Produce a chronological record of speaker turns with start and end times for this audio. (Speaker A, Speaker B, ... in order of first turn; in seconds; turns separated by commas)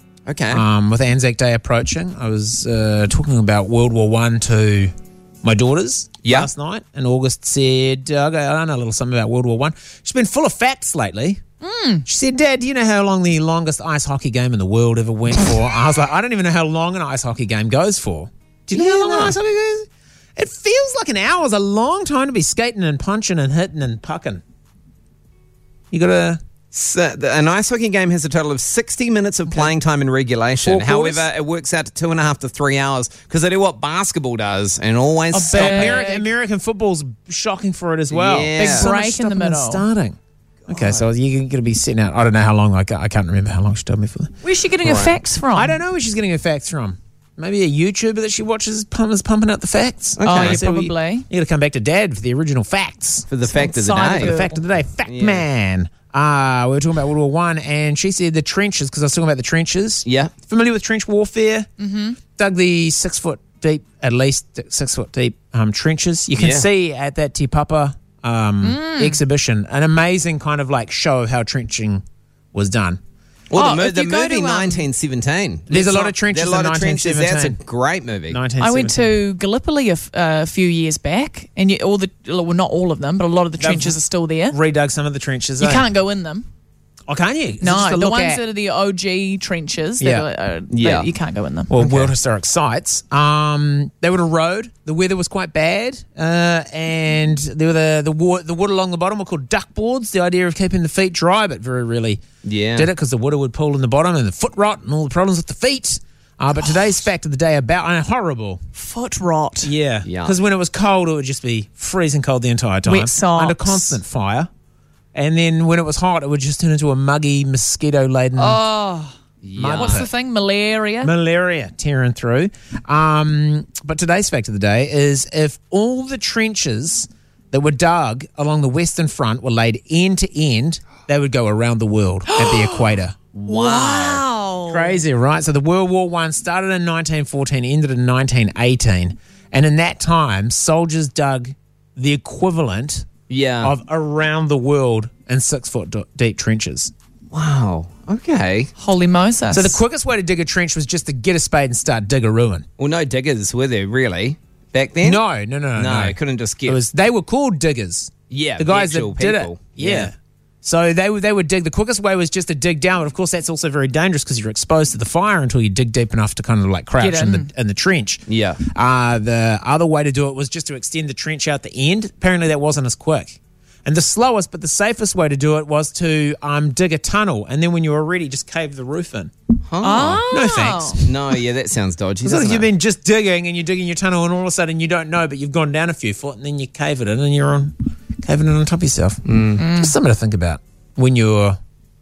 Speaker A: 0.3-0.6, Speaker B: 0.5-4.9, Speaker B: 5.4-11.4, Speaker A: 6.2-6.5, Speaker C: 11.6-12.0, Speaker B: 12.1-24.4, Speaker A: 18.7-19.4, Speaker B: 25.9-26.4, Speaker A: 26.7-36.0, Speaker B: 30.6-31.3, Speaker C: 35.3-36.3, Speaker B: 35.4-40.2, Speaker A: 38.1-38.9, Speaker C: 38.6-39.9, Speaker A: 40.7-41.0, Speaker B: 40.7-44.3, Speaker C: 44.4-45.8, Speaker A: 44.8-45.2, Speaker B: 45.5-53.3, Speaker A: 50.2-50.6, Speaker C: 50.2-51.3, Speaker A: 53.3-54.3, Speaker C: 53.5-54.6, Speaker B: 54.1-61.7, Speaker A: 55.0-55.5, Speaker A: 60.0-60.3, Speaker C: 61.8-62.2, Speaker B: 62.4-72.0, Speaker A: 66.3-66.7, Speaker C: 68.6-69.2, Speaker B: 72.5-73.0, Speaker A: 73.5-78.4, Speaker C: 73.5-74.9, Speaker B: 75.7-77.6, Speaker B: 78.3-79.1, Speaker C: 78.6-84.6, Speaker B: 83.6-84.0, Speaker B: 84.5-85.9, Speaker C: 85.6-86.5, Speaker B: 87.1-88.4, Speaker C: 87.6-91.7, Speaker B: 90.0-90.2, Speaker A: 90.7-91.1, Speaker B: 91.7-102.2, Speaker A: 91.8-92.1, Speaker A: 102.4-102.9, Speaker B: 102.8-108.6, Speaker C: 108.8-109.7, Speaker B: 109.6-114.5, Speaker A: 110.0-110.4, Speaker C: 112.8-114.0, Speaker B: 115.1-118.6, Speaker C: 118.4-119.1, Speaker A: 119.4-120.1, Speaker B: 119.6-120.1, Speaker C: 119.7-121.1, Speaker B: 121.0-133.2, Speaker C: 132.3-132.9, Speaker A: 133.3-134.2, Speaker C: 133.5-135.0, Speaker B: 134.7-143.1, Speaker A: 143.3-143.7, Speaker B: 143.6-146.9, Speaker A: 147.3-148.7, Speaker C: 148.8-149.8, Speaker B: 149.5-152.7, Speaker A: 152.8-155.2, Speaker B: 155.0-179.3, Speaker A: 155.8-156.8, Speaker A: 158.3-160.1, Speaker C: 167.0-167.5, Speaker A: 168.3-168.6, Speaker A: 179.7-180.3, Speaker C: 179.8-181.0, Speaker B: 180.0-181.1, Speaker A: 181.0-182.7, Speaker B: 182.2-191.6, Speaker A: 189.3-189.6, Speaker C: 189.6-189.9